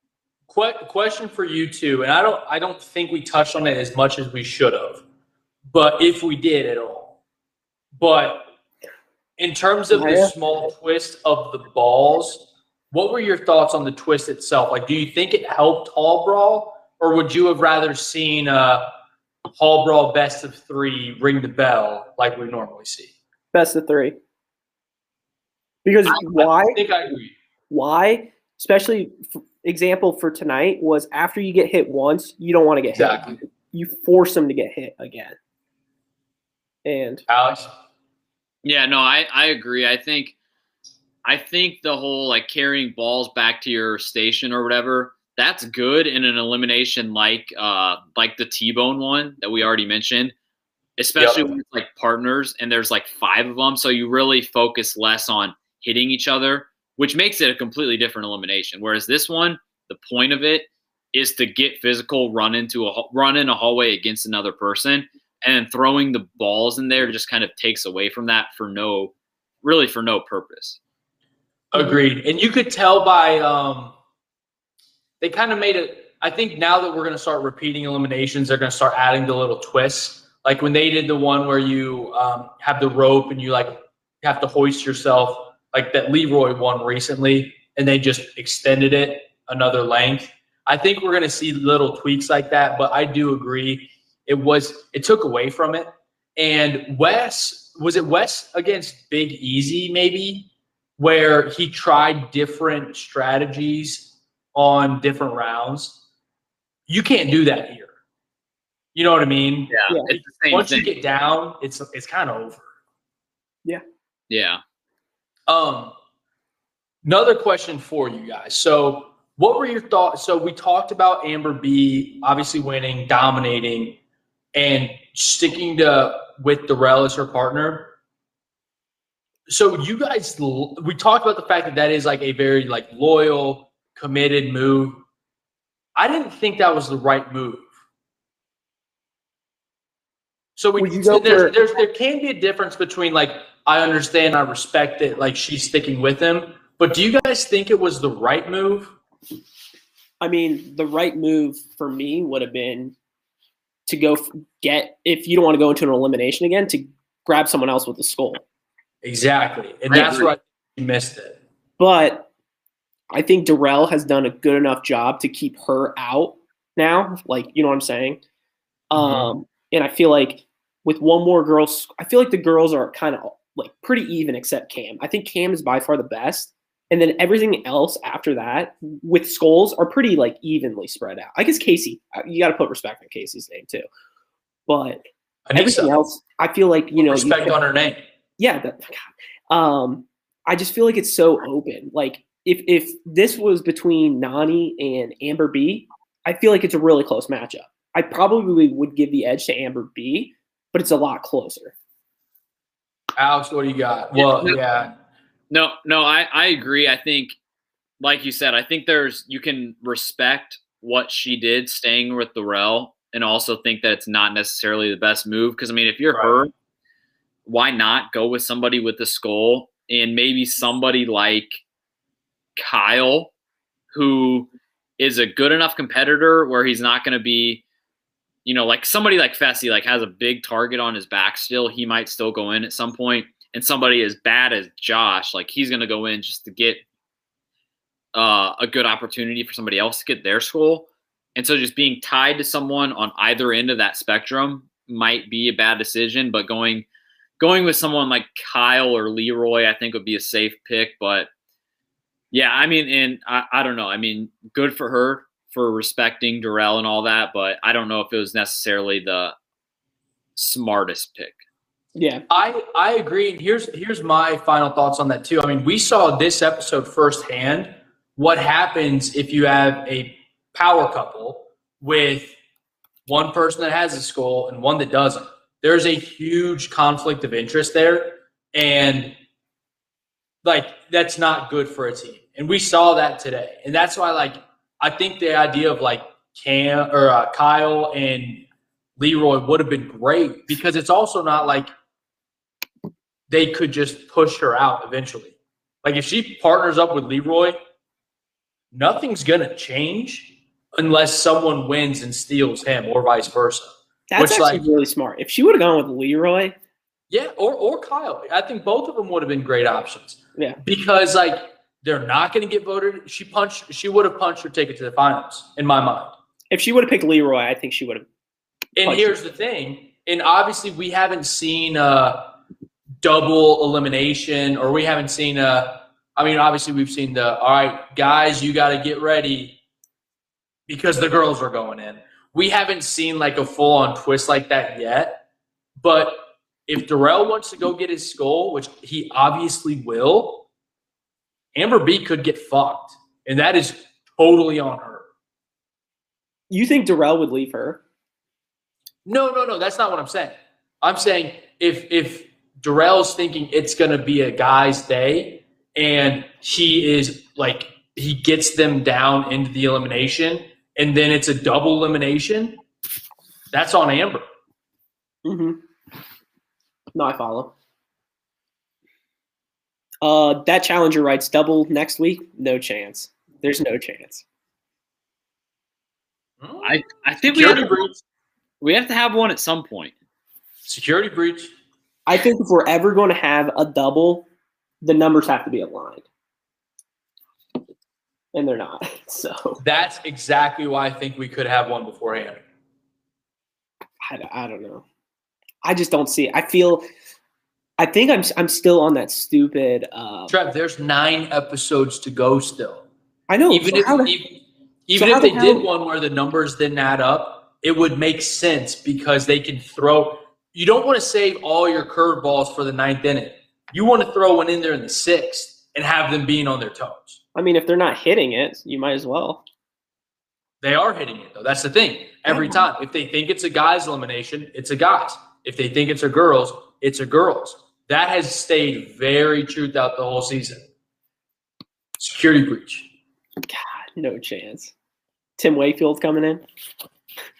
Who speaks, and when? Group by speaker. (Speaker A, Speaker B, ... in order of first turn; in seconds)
Speaker A: 0.5-5.0, 5.7-7.2, 8.0-8.5, 9.4-18.9, 19.5-23.1, 26.1-27.4, 33.0-33.4, 37.3-37.7, 51.2-51.5, 71.7-74.0, 75.2-106.0, 106.9-107.9, 109.0-112.7, 115.5-115.9, 117.0-124.0, 124.5-127.9, 129.5-135.0, 136.0-137.7, 140.6-149.0, 159.0-161.4, 168.9-169.3, 185.5-185.9, 187.0-188.0, 203.2-204.9, 216.1-216.5, 262.3-272.4, 273.1-279.1, 280.4-288.4, 289.0-291.7, 293.3-297.6, 298.7-304.7, 307.1-316.1, 318.8-322.3, 323.0-329.6, 330.7-335.2, 335.8-340.5, 341.6-345.1, 349.1-362.6, 363.5-364.2, 376.4-376.8, 377.3-378.0, 380.7-381.5, 389.6-392.4, 400.3-402.9, 403.5-417.2, 420.6-430.7, 432.0-432.9
Speaker B: 9.9-10.3, 23.5-24.2, 25.9-26.8, 27.7-35.4, 36.9-37.2, 140.8-141.6, 150.2-152.9, 153.9-158.4, 161.8-162.3, 163.1-168.2, 168.9-183.8, 184.7-185.0, 185.6-187.6, 188.4-201.8, 262.0-262.2, 304.1-306.6, 316.5-318.1, 318.8-319.2, 346.5-347.8, 365.2-365.6, 366.9-367.5, 370.0-374.2, 382.1-384.3, 384.8-386.1, 388.3-389.6, 394.0-394.8, 395.6-396.8, 397.8-400.3, 403.3-404.1, 404.9-405.7, 417.4-419.4, 422.3-422.7, 433.5-434.7, 435.4-436.4
Speaker C: 38.6-40.4, 41.2-50.3, 51.0-70.8, 109.7-110.9, 114.3-114.6, 159.9-160.3, 204.2-204.6, 205.5-207.4, 208.0-216.5, 217.5-221.6, 222.6-223.3, 223.9-227.6, 228.4-236.8, 238.1-246.9, 247.4-251.3, 252.3-259.4, 260.4-261.4, 376.6-377.8, 378.6-379.9